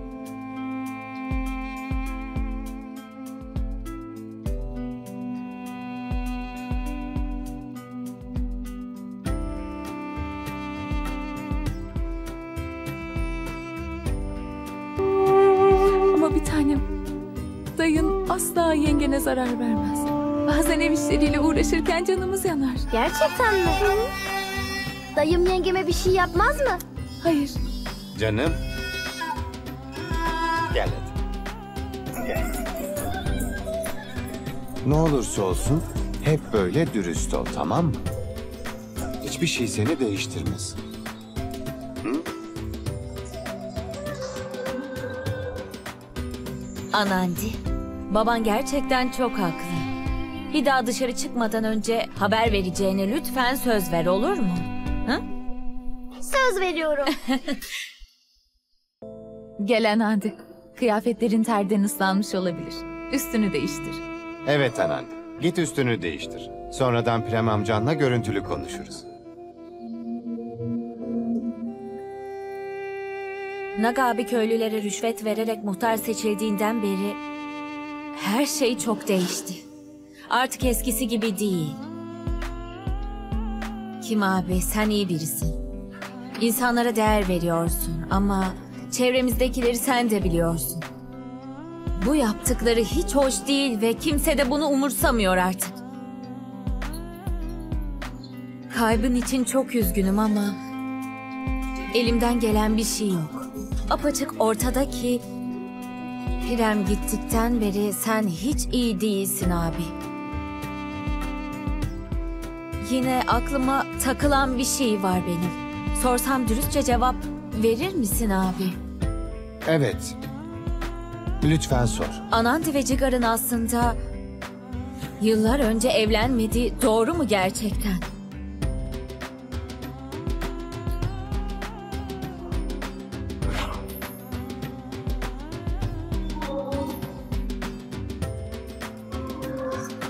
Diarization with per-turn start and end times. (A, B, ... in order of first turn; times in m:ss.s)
0:16.1-0:16.9 A
0:17.8-0:22.9 A
0:22.9-0:24.1 B
0:25.1-0:26.8 B
0:27.2-0:27.6 A
0:28.1-0:28.6 C
0:30.7-0:31.1 C
0:32.2-0:32.6 C
0:34.8-0:38.0 C
0:39.2-0:40.8 C
0:46.9-0:49.9 D
0:50.5-0:55.2 D
0:56.2-0:57.1 B
0:59.6-1:04.0 A
1:04.4-1:09.0 C
1:13.8-1:17.2 D
1:18.2-1:19.6 D
1:20.3-1:21.8 D
1:24.0-1:25.6 D
1:26.4-1:30.8 D
1:32.0-1:35.8 D
1:38.7-1:40.6 D
1:41.9-1:45.2 D
1:46.4-1:49.9 D
1:52.8-1:58.8 D
1:59.6-2:00.1 C
2:01.4-2:02.2 C
2:02.3-2:04.0 D
2:05.2-2:08.0 D